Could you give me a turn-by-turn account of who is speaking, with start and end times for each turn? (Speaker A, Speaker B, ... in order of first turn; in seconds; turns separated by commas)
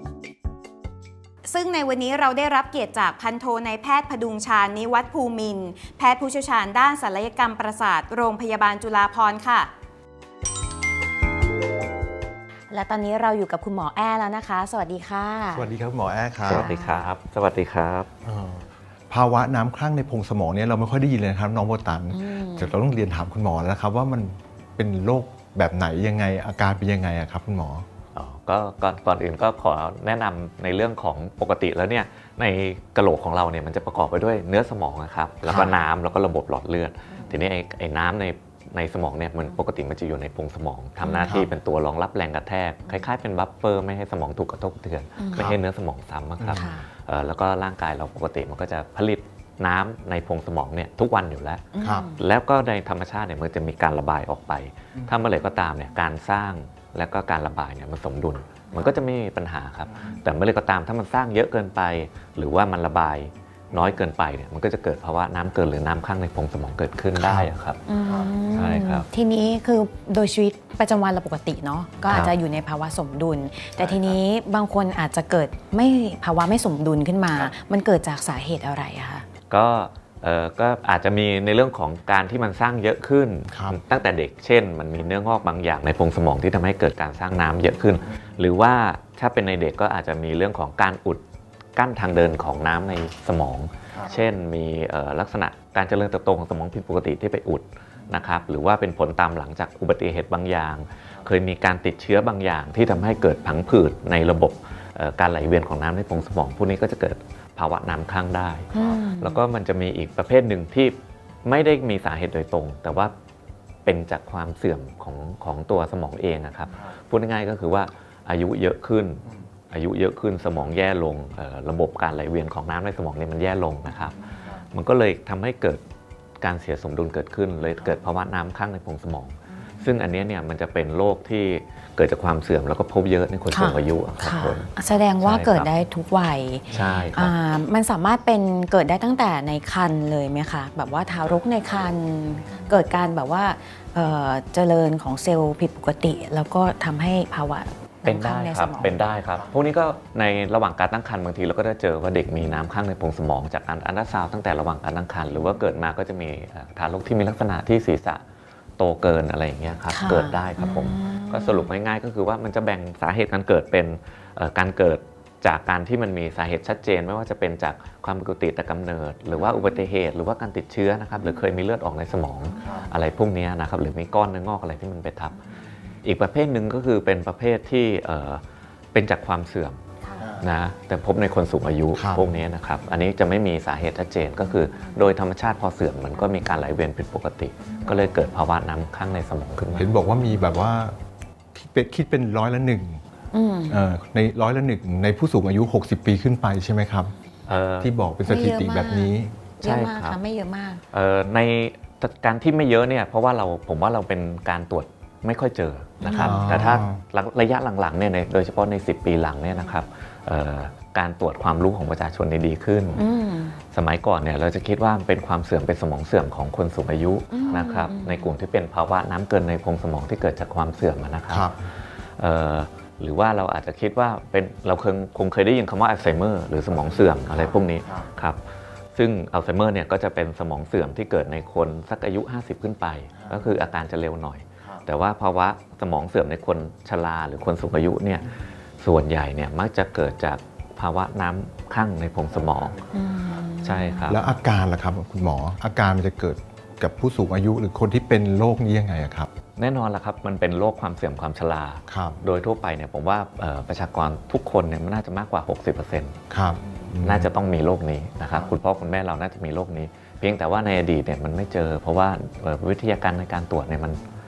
Speaker A: 1.4-9.7, Speaker A: 12.7-15.7, Speaker B: 15.5-16.7, Speaker C: 16.4-18.1, Speaker A: 16.5-17.1, Speaker B: 18.2-27.9, Speaker A: 22.1-22.8, Speaker C: 28.1-67.8, Speaker B: 35.5-35.7, Speaker A: 41.0-41.4, Speaker A: 45.2-45.5, Speaker B: 45.3-45.6, Speaker B: 46.4-46.6, Speaker A: 46.5-46.9, Speaker A: 51.7-52.2, Speaker B: 51.8-52.1, Speaker B: 67.2-67.5, Speaker A: 67.9-79.2, Speaker B: 68.1-68.5, Speaker C: 68.5-69.1, Speaker B: 73.8-74.2, Speaker C: 79.5-91.2, Speaker B: 83.5-83.8, Speaker C: 91.7-113.1, Speaker A: 108.7-109.4, Speaker C: 113.8-125.8, Speaker C: 126.4-134.7, Speaker A: 133.5-149.0, Speaker C: 135.2-135.7, Speaker C: 136.7-137.3, Speaker C: 148.0-158.2, Speaker C: 158.8-175.4, Speaker A: 159.9-161.7, Speaker C: 176.0-178.4, Speaker C: 178.9-179.8, Speaker C: 180.4-189.9, Speaker B: 181.9-182.3, Speaker B: 189.8-190.9, Speaker B: 191.5-193.0, Speaker A: 193.3-193.8, Speaker B: 193.7-197.1, Speaker C: 197.4-197.9, Speaker B: 197.8-199.4, Speaker A: 198.2-200.8, Speaker C: 199.6-200.2, Speaker C: 200.9-213.0, Speaker A: 206.0-206.8, Speaker B: 206.1-207.0, Speaker A: 212.9-213.6, Speaker C: 213.7-221.5, Speaker A: 217.3-218.3, Speaker B: 221.3-221.6, Speaker C: 222.2-228.4, Speaker C: 228.9-242.8, Speaker A: 242.9-244.2, Speaker C: 243.6-244.2, Speaker B: 244.1-249.3, Speaker C: 249.6-256.2, Speaker B: 251.9-252.2, Speaker B: 256.3-257.3, Speaker C: 257.0-264.0